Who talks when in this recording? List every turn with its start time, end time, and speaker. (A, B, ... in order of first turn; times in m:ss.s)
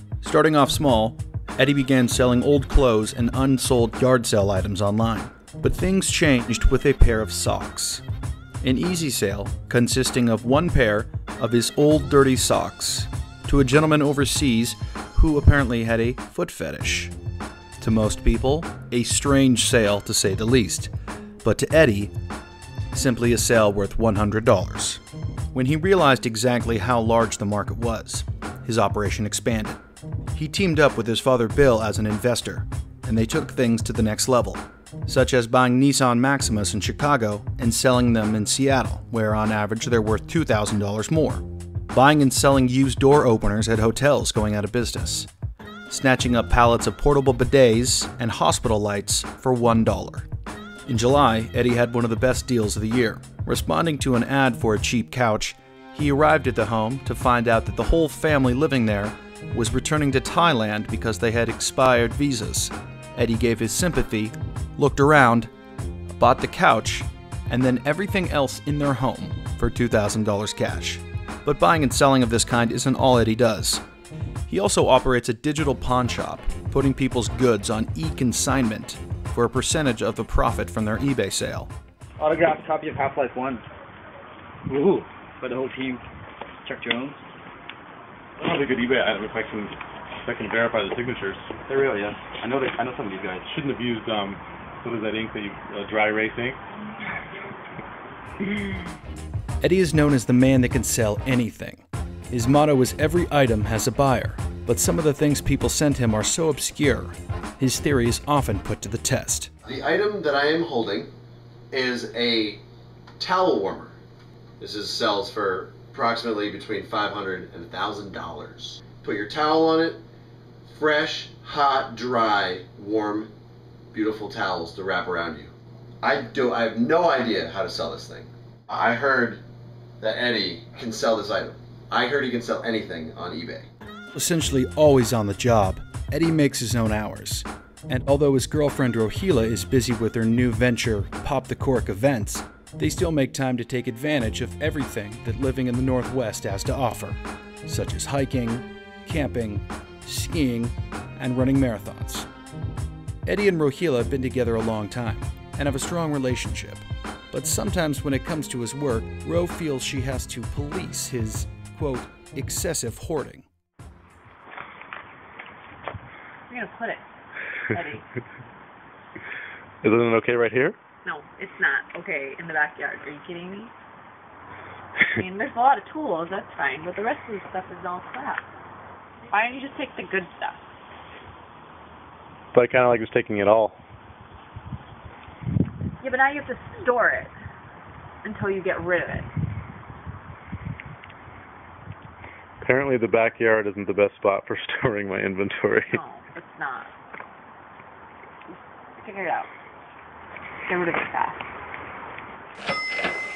0:00.2-0:08.0 A
0:08.6-0:17.1 A
0:17.8-0:20.9 A
0:21.4-0:22.1 A
0:22.9-0:25.0 A
0:25.5-0:29.8 A
0:30.3-0:45.3 A
0:45.9-0:50.3 A
0:50.8-1:05.5 A
1:06.1-1:13.8 A
1:14.5-1:21.7 A
1:22.2-1:23.6 B
1:24.7-1:26.0 B
1:26.6-1:27.2 B
1:28.4-1:29.7 C
1:30.2-1:31.5 C
1:31.7-1:33.4 B
1:33.5-1:36.6 C
1:39.6-1:49.5 A
1:49.6-1:51.1 D
1:51.7-1:52.6 D
1:53.2-1:54.0 D
1:54.6-2:00.0 D
2:00.7-2:03.3 D
2:03.9-2:09.4 D
2:10.0-2:13.7 D
2:14.1-2:32.3 A
2:33.2-2:43.4 A
2:46.5-2:47.0 E
2:47.7-2:48.0 E
2:49.8-2:50.8 C
2:51.0-2:53.7 E
2:55.1-2:58.4 E
2:59.3-3:00.6 E
3:02.5-3:03.8 C
3:06.0-3:07.3 E
3:08.2-3:09.3 E
3:12.6-3:16.0 C
3:15.9-3:16.9 E
3:19.0-3:19.5 E
3:20.7-3:21.4 E